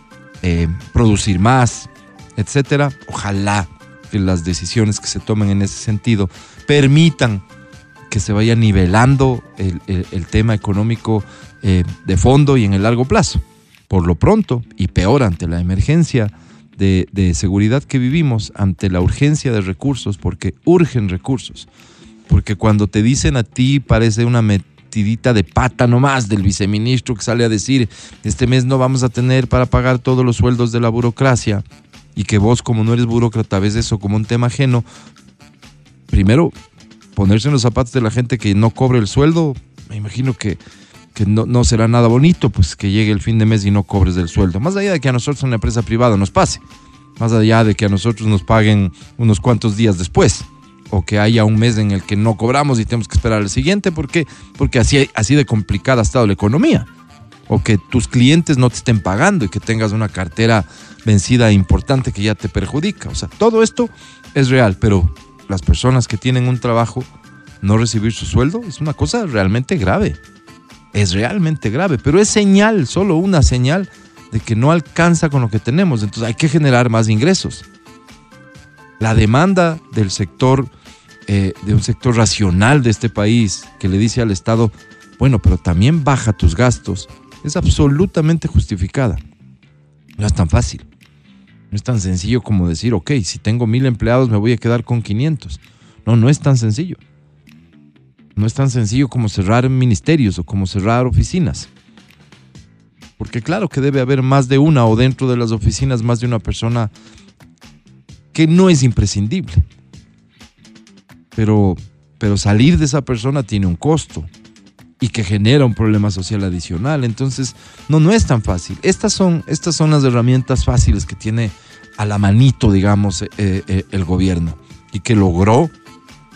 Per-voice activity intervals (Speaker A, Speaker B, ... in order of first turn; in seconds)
Speaker A: 0.4-7.4, 8.1-21.7, 22.3-31.6, 32.1-34.9, 36.1-36.5, 37.2-40.6, 41.1-46.6, 47.2-56.9, 57.5-67.1, 67.6-70.2, 70.9-77.7, 79.0-80.7, 81.3-89.2, 90.2-90.9, 91.7-97.0, 98.4-101.7, 103.2-106.9, 108.3-109.7, 111.3-114.3, 115.0-125.7